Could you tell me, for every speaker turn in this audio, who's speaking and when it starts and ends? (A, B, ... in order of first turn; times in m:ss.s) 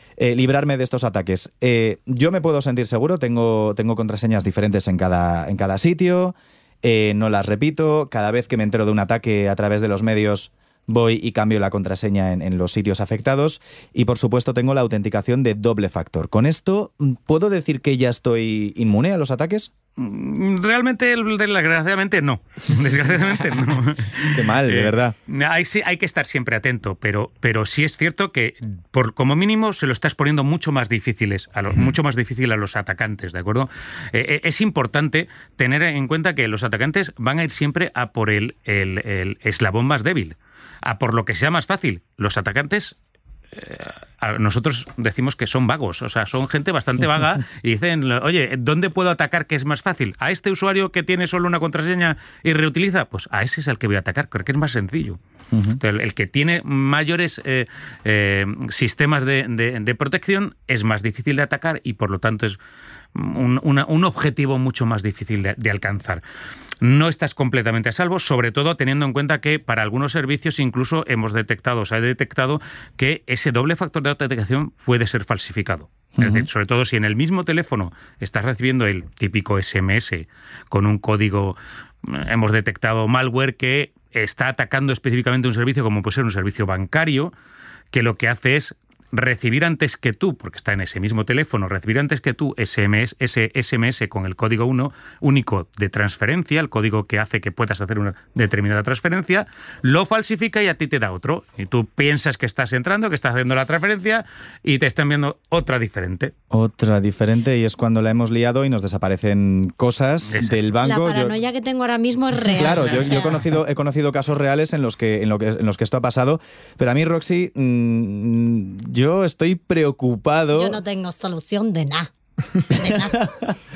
0:00.2-0:19.7 A
0:20.0-0:43.0 B
0:24.3-0:25.1 A
0:43.5-0:55.2 B
0:55.5-0:55.8 A
0:55.8-1:02.6 B
1:03.1-1:06.2 B
1:06.8-1:27.3 B
1:16.2-1:16.5 A
1:27.9-1:46.3 B
1:46.5-1:51.3 A
1:50.3-1:50.6 B
1:50.8-1:53.4 C
1:52.5-2:00.8 A
2:00.5-2:03.2 C
2:02.8-2:03.6 A